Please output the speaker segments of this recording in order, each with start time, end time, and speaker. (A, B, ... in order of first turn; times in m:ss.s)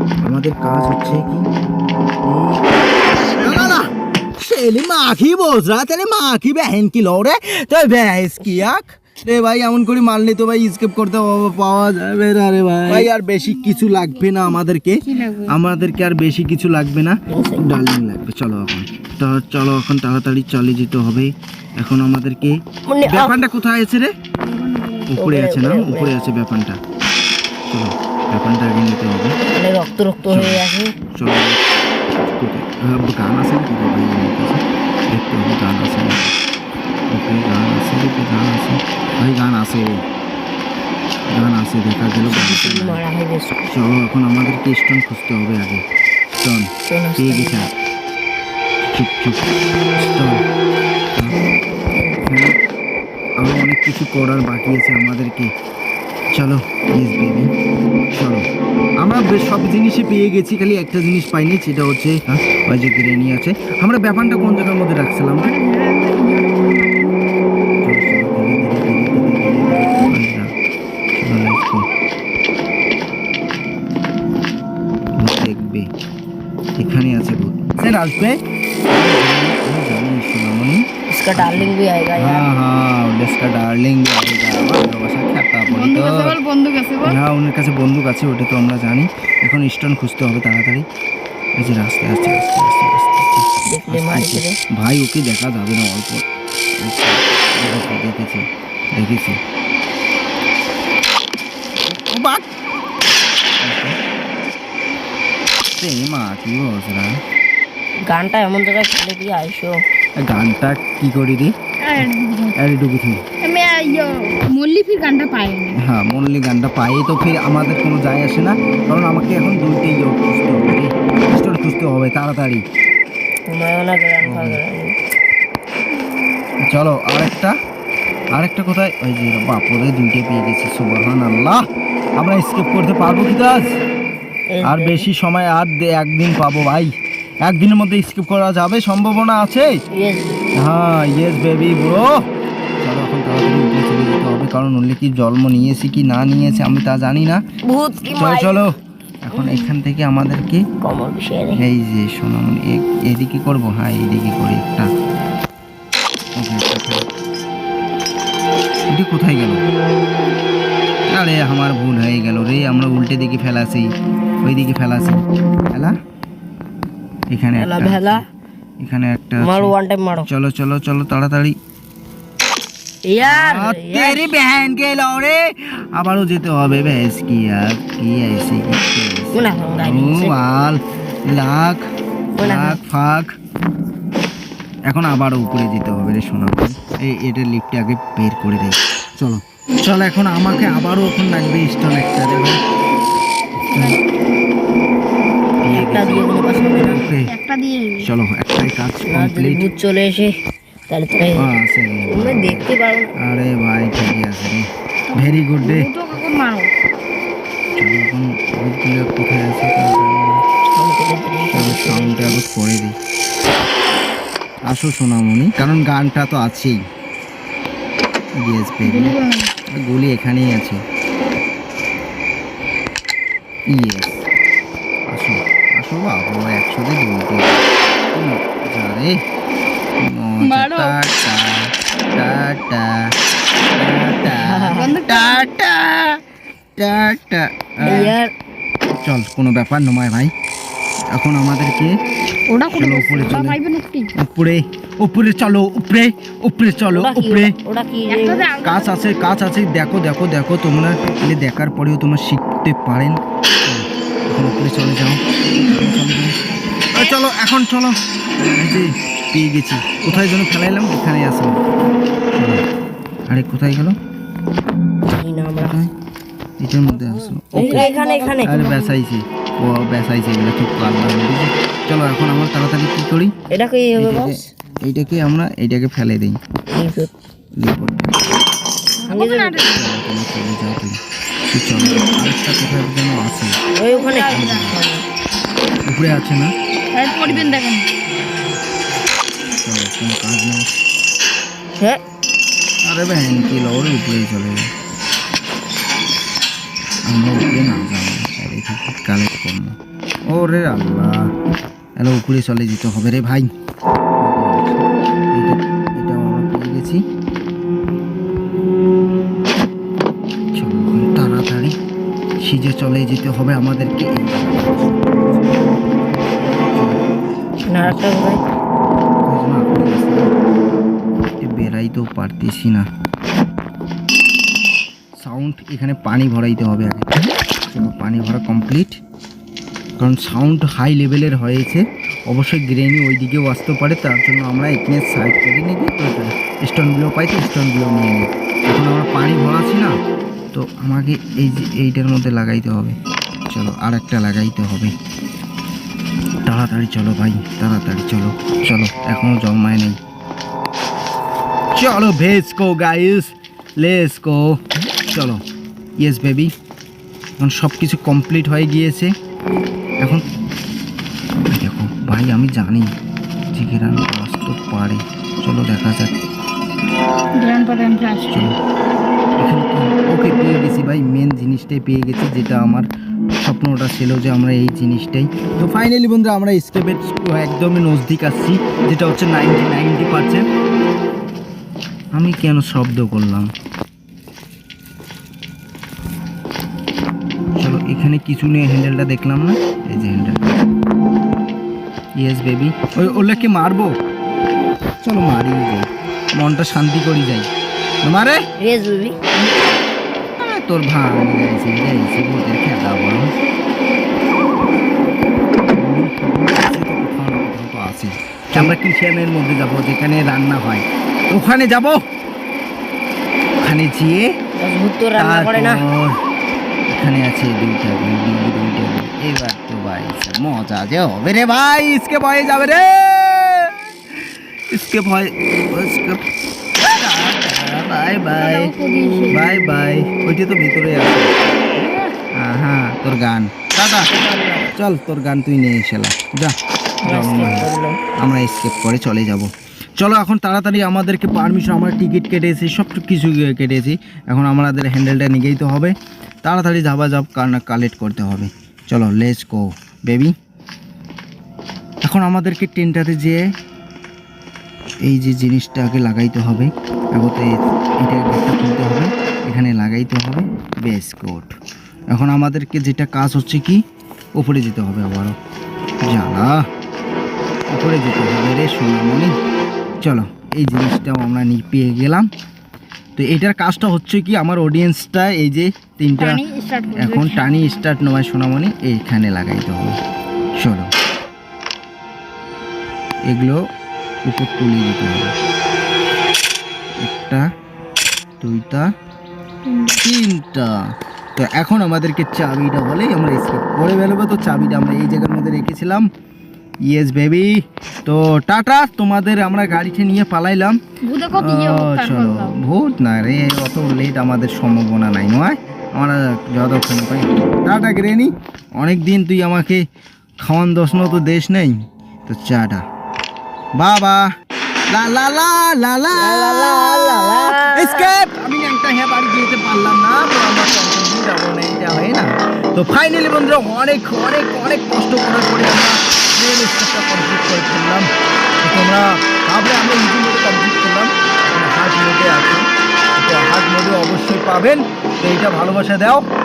0:00.2-0:24.1 A
0:13.4-0:15.6 B
0:17.3-0:17.7 C
0:22.9-0:23.4 C
0:24.4-0:25.1 B
0:25.1-0:26.8 A
0:25.2-0:26.1 C
0:27.7-0:29.4 A
0:29.4-0:30.9 C
0:30.3-0:30.6 A
0:31.1-0:31.6 A
0:32.2-0:36.4 A
0:37.1-0:40.0 A
0:41.3-0:43.0 A
0:42.2-0:43.7 C
0:43.7-0:45.8 A
0:46.4-0:47.7 A
0:46.9-0:47.7 C
0:48.8-0:50.4 A
0:51.1-0:51.4 A
0:51.9-0:52.3 C
0:52.2-0:52.6 A
0:53.4-0:55.5 A
0:56.3-0:57.5 A
0:58.1-0:58.5 A
0:59.0-1:05.5 A
1:05.4-1:07.2 B
1:07.8-1:10.5 A
1:11.1-1:11.9 A
1:15.2-1:15.9 A
1:16.8-1:26.3 A
1:21.1-1:22.5 C
1:25.7-1:27.2 B
1:27.0-1:30.8 A
1:31.6-1:36.2 A
1:33.7-1:34.6 C
1:36.8-1:39.4 A
1:41.8-1:42.5 A
1:43.6-1:44.0 A
1:45.8-1:47.2 A
1:48.1-1:49.8 C
1:50.2-1:53.2 A
1:51.8-1:52.6 B
1:53.4-1:55.8 B
1:55.8-2:02.6 A
2:03.5-2:05.0 C
2:04.2-2:04.6 A
2:06.0-2:06.6 B
2:06.6-2:07.6 A
2:08.3-2:11.6 A
2:12.2-2:13.7 A
2:14.5-2:15.1 C
2:14.6-2:16.9 A
2:17.4-2:19.7 A
2:20.0-2:20.4 C
2:20.6-2:22.1 A
2:22.8-2:27.4 A
2:27.6-2:28.6 C
2:28.2-2:30.6 A
2:29.3-2:29.7 C
2:30.8-2:31.6 C
2:31.6-2:34.9 A
2:36.4-2:37.1 A
2:38.9-2:39.6 A
2:41.1-2:43.9 A
2:44.4-2:46.0 A
2:47.3-2:48.2 A
2:47.6-2:48.2 C
2:48.8-2:49.8 A
2:49.4-2:50.3 C
2:50.3-2:51.6 A
2:53.1-2:54.3 C
2:53.2-3:01.8 A
2:59.3-3:00.4 C
3:02.4-3:02.8 C
3:02.4-3:03.3 A
3:04.9-3:12.6 A
3:13.6-3:14.4 B
3:13.7-3:14.0 A
3:15.6-3:16.3 A
3:15.7-3:17.1 C
3:16.3-3:18.1 B
3:16.9-3:17.3 A
3:18.0-3:19.7 A
3:19.1-3:20.3 C
3:20.9-3:21.5 C
3:21.4-3:25.9 A
3:22.1-3:23.1 C
3:25.1-3:26.7 B
3:27.8-3:30.4 A
3:30.6-3:32.4 C
3:31.5-3:33.0 A
3:34.7-3:36.8 A
3:38.4-3:39.2 A
3:38.8-3:39.5 B
3:39.7-3:40.8 A
3:43.7-3:44.3 A
3:45.1-3:49.2 A
3:50.0-3:53.1 A
3:50.4-3:51.0 B
3:53.8-3:56.2 A
3:54.2-3:55.0 C
3:54.8-3:55.5 B
3:56.8-3:58.2 A
3:57.8-3:58.3 C
3:57.8-3:58.1 B
3:59.0-4:00.3 A
4:01.1-4:01.9 A
4:02.5-4:04.1 B
4:02.7-4:03.6 A
4:04.2-4:07.6 A
4:06.9-4:08.6 C
4:08.1-4:09.1 B
4:08.6-4:16.3 A
4:16.9-4:18.0 A
4:18.6-4:21.6 A
4:22.3-4:22.6 A
4:23.3-4:24.0 A
4:25.0-4:25.8 C
4:25.6-4:25.9 A
4:26.6-4:27.9 A
4:27.5-4:28.6 C
4:27.5-4:29.0 B
4:28.4-4:33.3 A
4:33.5-4:34.4 C
4:34.0-4:36.4 A
4:36.7-4:37.1 C
4:37.6-4:38.3 A
4:39.0-4:39.9 B
4:39.1-4:39.6 C
4:39.7-4:41.0 A
4:41.5-4:43.6 A
4:41.8-4:42.2 B
4:43.8-4:45.0 C
4:43.9-4:44.7 B
4:44.3-4:44.8 A
4:45.9-4:46.5 A
4:46.9-4:47.8 B
4:47.3-4:47.6 A
4:49.5-4:50.7 A
4:52.8-4:54.7 A
4:57.1-4:59.8 A
5:00.3-5:01.3 A
5:02.0-5:03.5 A
5:04.2-5:07.0 A
5:10.5-5:11.8 A
5:12.4-5:15.4 A
5:16.7-5:17.0 A
5:17.7-5:18.4 C
5:19.2-5:20.3 A
5:21.4-5:22.9 A
5:25.2-5:29.0 A
5:30.0-5:39.9 A
5:40.5-5:43.0 A
5:43.5-5:45.0 A
5:46.5-5:50.0 A
5:51.8-5:55.4 A
5:56.0-5:56.5 A
5:57.4-5:59.1 A
6:00.0-6:00.2 A
6:01.5-6:02.9 A
6:03.5-6:06.1 A
6:07.4-6:08.5 B
6:08.3-6:08.6 A
6:09.4-6:12.9 A
6:13.4-6:20.4 A
6:22.1-6:23.5 A
6:27.6-6:30.4 A
6:32.2-6:33.9 A
6:35.0-6:37.5 A
6:38.0-6:38.4 A
6:38.6-6:39.2 C
6:40.4-6:43.3 A
6:45.7-6:52.0 A
6:53.6-6:54.3 A
6:54.6-6:55.8 C
6:55.2-6:56.2 A
6:56.9-7:06.3 A
7:06.8-7:08.7 A
7:08.4-7:09.4 B
7:09.3-7:11.4 A
7:12.3-7:14.1 A
7:14.1-7:14.7 C
7:14.8-7:30.3 A
7:17.1-7:18.0 C
7:32.0-7:33.5 A
7:35.0-7:41.6 A
7:42.1-7:43.8 A
7:44.4-7:45.4 A
7:46.1-7:46.6 A
7:47.7-7:49.3 A
7:50.0-7:52.3 A
7:53.2-7:56.4 A
7:56.2-7:57.8 B
7:57.0-8:00.0 A
8:00.6-8:00.9 A
8:03.3-8:03.6 A
8:04.3-8:05.4 A
8:07.0-8:07.5 A
8:08.4-8:08.9 A
8:09.7-8:10.0 B
8:10.0-8:16.1 A
8:16.9-8:20.8 A
8:21.1-8:22.6 B
8:21.3-8:29.8 A
8:30.4-8:32.8 A
8:33.8-8:34.3 A
8:34.9-8:48.1 A
8:36.1-8:38.1 C
8:48.6-8:56.3 A